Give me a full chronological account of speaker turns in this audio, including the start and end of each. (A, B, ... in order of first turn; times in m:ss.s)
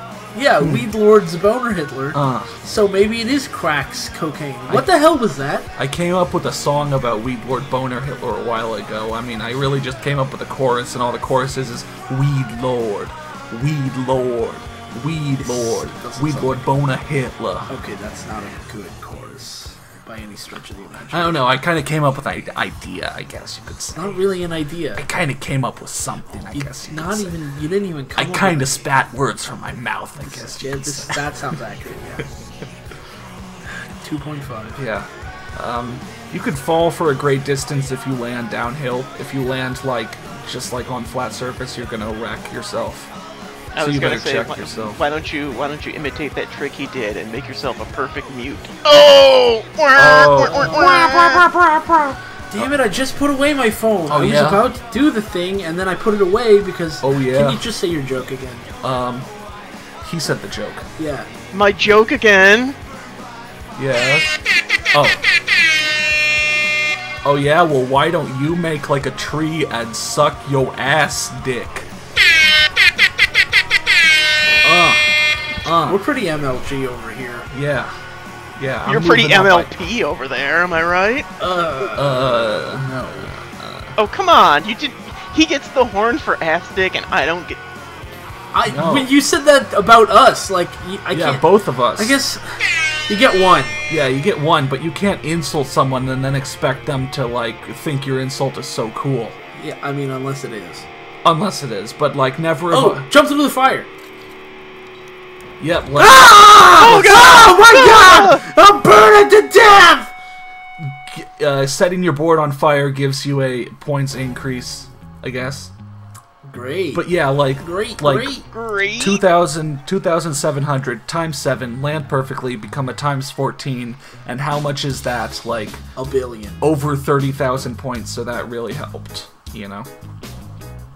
0:00.3-0:05.7 A
0:02.1-0:02.6 B
0:04.7-0:05.0 B
0:05.7-0:17.7 B
0:15.4-0:16.7 A
0:17.7-0:21.4 A
0:21.1-0:24.2 B
0:23.9-0:25.0 A
0:24.9-0:27.4 B
0:26.5-0:28.8 A
0:28.2-0:31.2 B
0:30.2-0:32.2 A
0:34.0-0:34.8 A
0:34.8-0:43.1 B
0:43.7-0:51.5 C
0:43.8-0:45.0 B
0:49.9-0:52.7 B
0:50.4-0:51.1 A
0:52.5-0:58.7 A
0:54.1-0:54.6 B
0:57.0-0:57.6 B
0:58.8-0:59.3 B
1:00.0-1:00.9 B
1:01.0-1:01.3 A
1:01.5-1:02.8 C
1:03.8-1:04.4 B
1:04.9-1:05.2 B
1:07.2-1:11.9 B
1:14.6-1:15.1 B
1:15.6-1:16.0 B
1:15.8-1:17.5 A
1:17.5-1:18.0 B
1:18.6-1:19.8 B
1:18.8-1:21.3 C
1:21.4-1:23.3 A
1:22.0-1:23.9 B
1:24.0-1:27.6 C
1:28.5-1:33.8 A
1:28.6-1:29.1 B
1:31.1-1:32.2 B
1:33.9-1:39.4 B
1:39.5-1:40.9 A
1:41.2-1:43.0 B
1:42.7-1:43.9 A
1:45.6-1:46.4 B
1:45.9-1:50.1 A
1:46.7-1:48.4 C
1:50.8-1:55.7 B
1:56.4-1:58.4 A
1:56.9-1:58.4 B
1:58.5-1:59.2 C
1:59.0-2:05.8 B
2:06.0-2:06.6 A
2:06.6-2:09.9 B